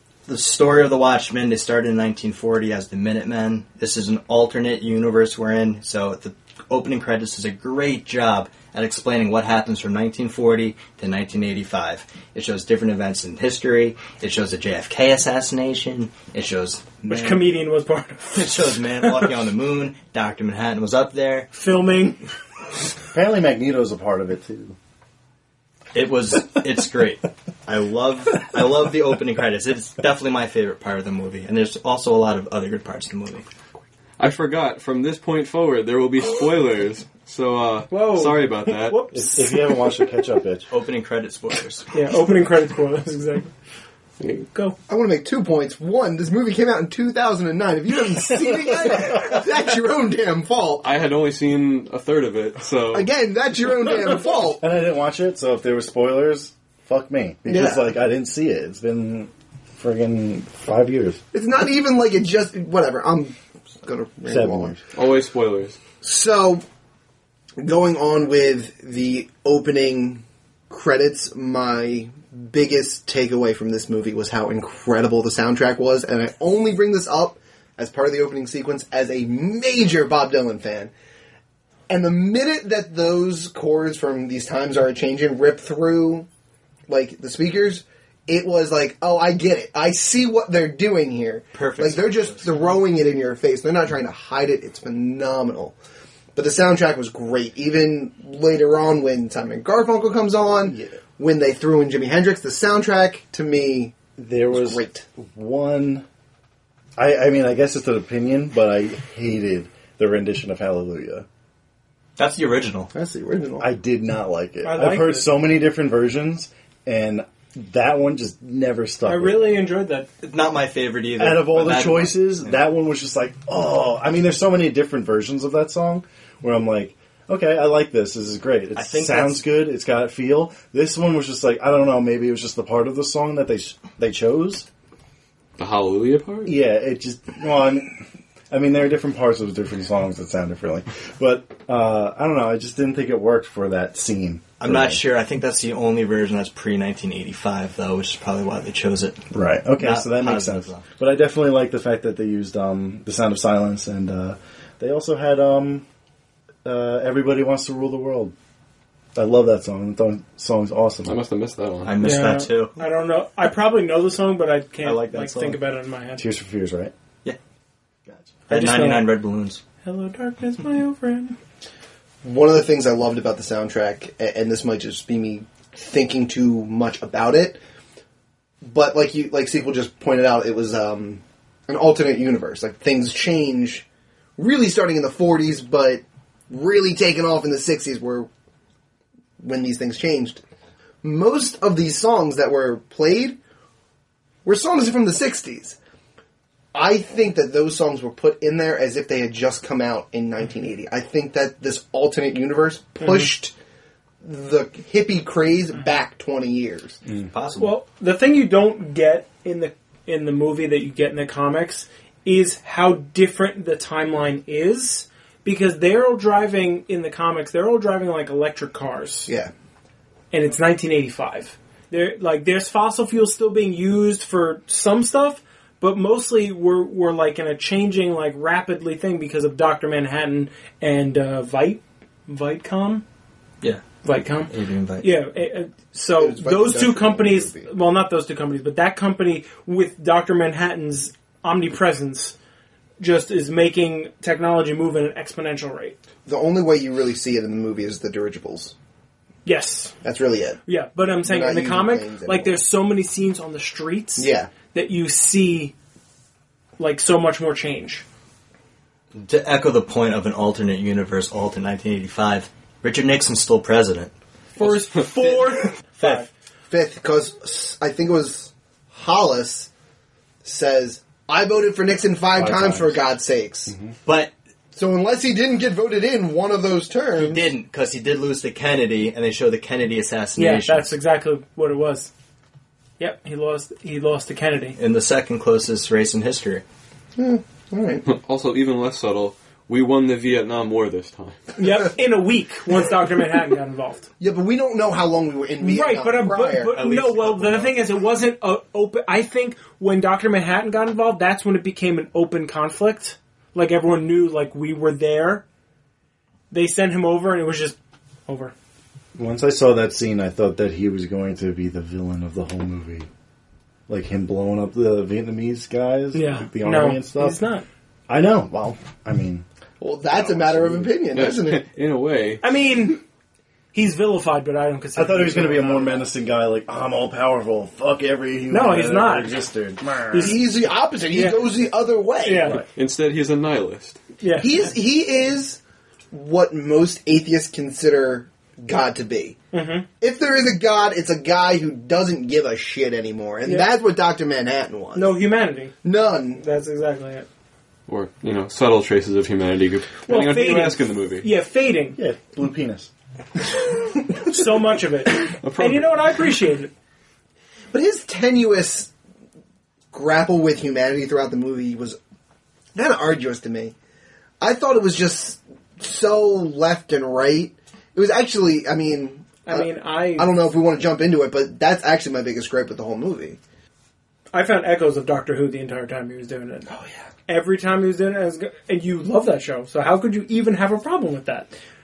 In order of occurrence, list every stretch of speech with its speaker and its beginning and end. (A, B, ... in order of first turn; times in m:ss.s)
0:00.3-0:17.5 A
0:17.0-0:19.1 B
0:18.3-0:21.5 A
0:21.5-0:22.2 B
0:23.1-0:24.8 C
0:25.9-0:33.4 A
0:34.2-0:39.0 D
0:37.9-0:40.1 B
0:39.1-0:40.7 C
0:40.7-0:41.9 A
0:41.9-0:43.5 B
0:44.2-0:44.5 D
0:44.9-0:50.9 E
0:50.8-0:53.1 D
0:52.9-0:54.6 E
0:54.6-1:01.2 C
0:57.5-0:57.9 E
1:01.3-1:04.8 E
1:04.3-1:04.8 C
1:04.9-1:05.8 D
1:06.0-1:06.6 E
1:07.6-1:20.9 E
1:21.9-1:26.3 E
1:26.9-1:35.8 E
1:31.5-1:32.6 A
1:36.4-1:44.0 E
1:40.6-1:41.0 C
1:44.2-1:46.0 C
1:44.5-1:45.0 E
1:47.0-1:51.3 C
1:52.2-1:52.9 A
1:52.9-1:53.7 E
1:53.6-1:59.5 C
1:54.6-1:55.3 B
1:59.0-2:00.1 B
2:00.2-2:02.6 A
2:01.2-2:14.7 C
2:08.8-2:09.4 A
2:15.6-2:16.6 D
2:16.5-2:18.0 C
2:18.5-2:25.0 C
2:24.6-2:29.3 A
2:29.3-2:35.8 C
2:29.8-2:30.8 A
2:36.6-2:38.3 C
2:39.2-2:41.2 C
2:41.0-2:42.0 D
2:41.8-2:42.7 A
2:42.0-2:46.3 B
2:44.8-2:45.6 A
2:46.2-2:46.9 C
2:48.5-2:49.6 A
2:48.5-2:49.2 B
2:49.8-2:51.4 B
2:52.2-2:57.6 E
2:58.6-3:03.8 E
3:04.4-3:08.3 E
3:09.4-3:10.4 E
3:11.0-3:13.4 E
3:14.4-3:15.8 E
3:16.7-3:23.5 E
3:24.2-3:27.0 E
3:27.3-3:27.7 A
3:27.6-3:39.3 B
3:40.3-3:53.0 B
3:54.0-4:02.4 B
3:54.5-3:55.2 A
3:56.2-3:57.7 E
4:03.0-4:06.0 B
4:06.3-4:08.7 E
4:09.4-4:09.9 B
4:10.0-4:10.6 E
4:10.7-4:15.7 B
4:11.2-4:12.6 E
4:14.2-4:14.5 E
4:16.8-4:18.0 B
4:19.2-4:24.7 A
4:24.6-4:26.2 B
4:26.7-4:29.7 E
4:30.4-4:33.8 E
4:32.3-4:33.0 C
4:33.7-4:34.0 C
4:34.0-4:34.3 A
4:34.7-4:37.6 E
4:37.2-4:40.9 A
4:40.4-4:42.1 B
4:43.0-4:44.8 B
4:44.8-4:46.6 A
4:47.2-4:48.0 E
4:48.0-4:51.4 D
4:51.6-4:54.1 B
4:54.2-4:56.7 E
4:55.6-5:05.4 B
4:56.7-4:57.9 A
5:06.5-5:08.5 B
5:09.2-5:13.1 C
5:13.9-5:17.4 C
5:16.1-5:17.6 B
5:18.1-5:19.4 C
5:19.8-5:21.6 E
5:20.1-5:20.9 C
5:21.1-5:22.4 D
5:22.4-5:23.0 B
5:23.7-5:26.1 B
5:25.0-5:30.4 C
5:28.5-5:29.4 B
5:30.1-5:30.4 B
5:30.2-5:32.6 E
5:31.1-5:31.5 B
5:32.2-5:32.6 B
5:32.8-5:34.0 D
5:34.2-5:34.5 B
5:34.4-5:35.6 E
5:36.1-5:39.4 E
5:39.5-5:39.9 B
5:40.0-5:45.2 E
5:43.4-5:43.7 B
5:44.9-5:45.8 B
5:45.8-5:46.4 E
5:46.4-5:47.3 B
5:47.9-5:51.3 D
5:50.1-5:52.0 B
5:52.0-5:52.9 C
5:54.1-5:56.7 B
5:55.2-5:56.0 D
5:57.7-5:58.9 E
5:59.9-6:02.0 E
6:02.8-6:03.7 E
6:04.4-6:13.4 E
6:09.5-6:10.3 B
6:14.3-6:16.7 B
6:17.3-6:21.5 B